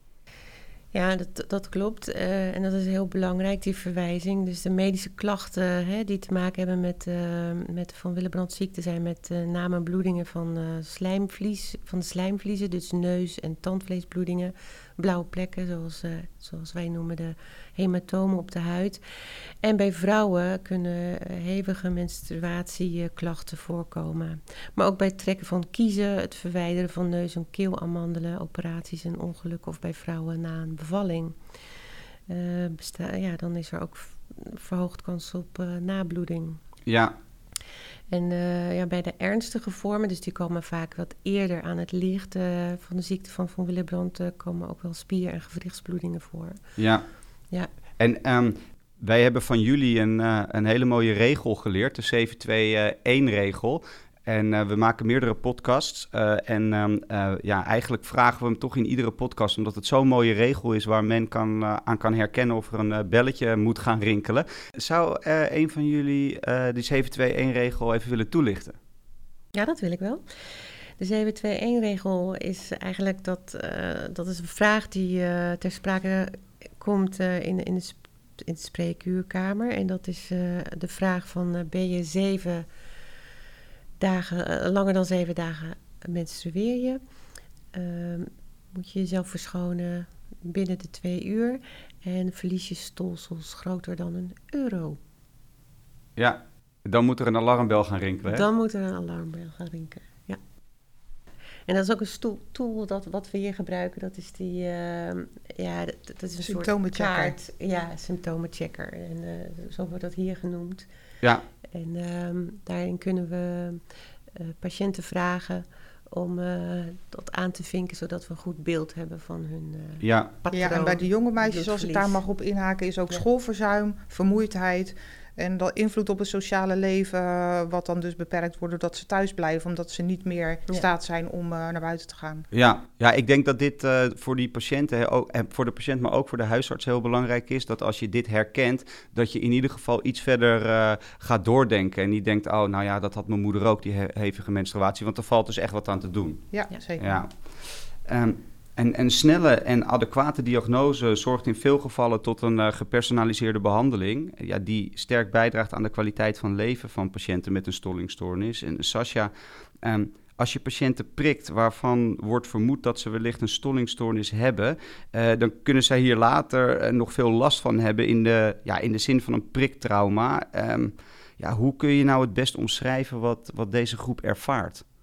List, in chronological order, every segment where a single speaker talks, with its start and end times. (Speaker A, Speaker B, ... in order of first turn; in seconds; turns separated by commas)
Speaker A: 0.9-19.0, Speaker A: 19.6-31.4, Speaker A: 32.3-36.6, Speaker B: 36.9-37.1, Speaker A: 38.1-46.6, Speaker B: 46.8-47.1, Speaker B: 48.0-68.8, Speaker A: 69.5-70.2, Speaker A: 71.0-82.7, Speaker A: 84.0-87.0, Speaker A: 87.7-95.0, Speaker B: 96.2-98.5, Speaker A: 98.3-100.4, Speaker A: 101.7-110.9, Speaker C: 106.4-107.3, Speaker A: 111.7-122.2, Speaker B: 120.0-120.3, Speaker C: 120.5-132.5, Speaker B: 132.5-174.8, Speaker C: 146.5-147.2